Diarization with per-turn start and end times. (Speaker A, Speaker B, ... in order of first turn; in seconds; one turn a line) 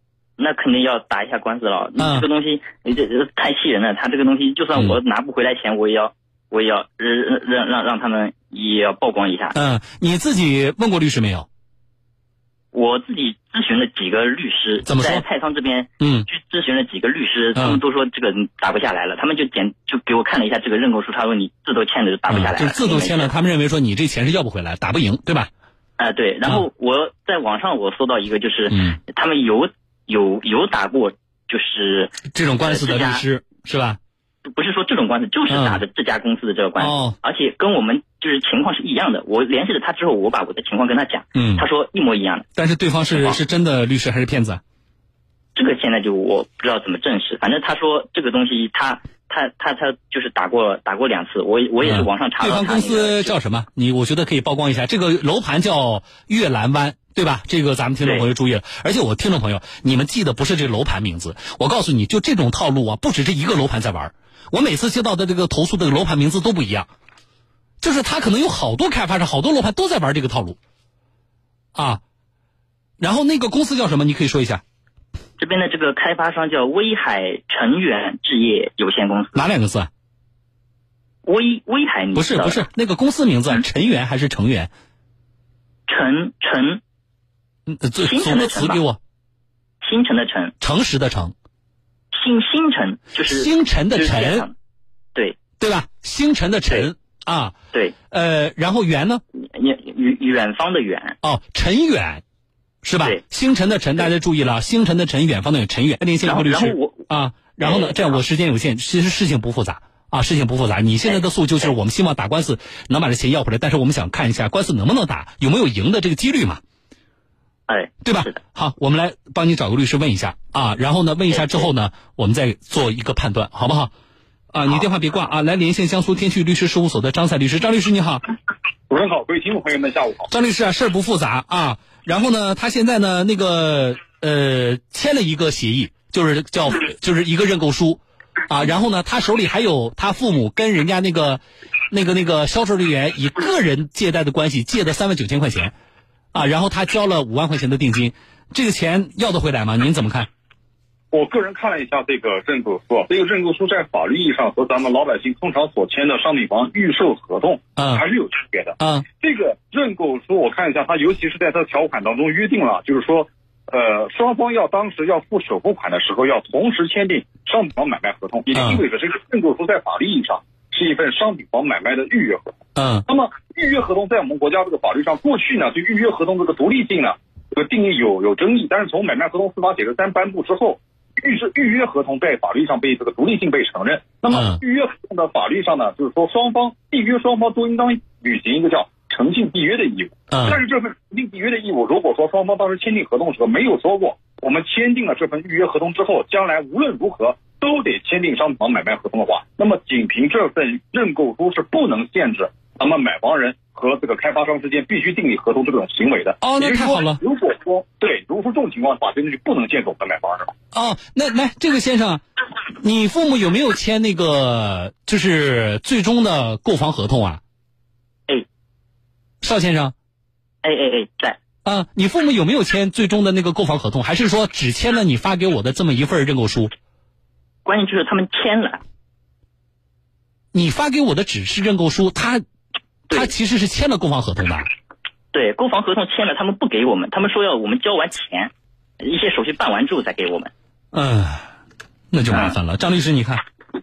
Speaker A: 0.4-9.6
Speaker B: 2.0-2.2
Speaker B: 9.5-11.5
Speaker A: 12.7-23.3
Speaker B: 14.8-15.2
Speaker B: 16.0-16.3
Speaker B: 17.5-17.8
Speaker B: 22.3-25.5
Speaker A: 26.0-33.2
Speaker B: 28.7-29.0
Speaker B: 32.3-34.0
Speaker A: 34.5-42.5
Speaker B: 35.5-35.8
Speaker B: 36.8-37.1
Speaker B: 41.3-41.6
Speaker B: 42.5-44.6
Speaker A: 43.1-43.4
Speaker A: 45.5-53.3
Speaker B: 51.8-66.9
Speaker B: 67.8-70.6
Speaker B: 71.7-72.0
Speaker B: 73.0-74.6
Speaker A: 75.4-79.4
Speaker B: 79.3-79.9
Speaker A: 81.2-82.6
Speaker B: 82.1-84.7
Speaker A: 85.9-86.8
Speaker B: 87.7-89.0
Speaker A: 88.0-88.8
Speaker A: 89.8-90.5
Speaker B: 90.6-91.3
Speaker A: 92.1-94.5
Speaker B: 93.2-94.5
Speaker A: 95.1-95.4
Speaker B: 95.6-97.5
Speaker B: 98.1-99.2
Speaker A: 99.4-101.2
Speaker B: 101.2-102.2
Speaker B: 102.8-116.6
Speaker A: 106.2-107.1
Speaker A: 107.6-108.2
Speaker A: 111.0-111.7
Speaker A: 117.7-118.4
Speaker B: 118.0-123.9
Speaker A: 121.3-121.7
Speaker B: 124.5-128.2
Speaker C: 128.9-130.3
Speaker B: 130.3-145.7
Speaker B: 146.3-150.3
Speaker C: 151.1-172.6
Speaker B: 157.8-158.0
Speaker B: 158.8-159.1
Speaker B: 168.5-168.8
Speaker B: 172.8-173.0
Speaker C: 173.1-210.5
Speaker B: 184.3-184.6
Speaker B: 190.3-190.6
Speaker B: 206.4-207.2
Speaker B: 210.7-212.2
Speaker B: 212.8-217.4
Speaker B: 219.4-219.9
Speaker A: 220.6-221.4
Speaker B: 221.6-226.7
Speaker A: 227.6-228.8
Speaker B: 230.5-232.4
Speaker B: 233.1-234.7
Speaker A: 235.3-240.5
Speaker B: 240.9-241.5
Speaker B: 242.1-243.4
Speaker A: 242.3-242.6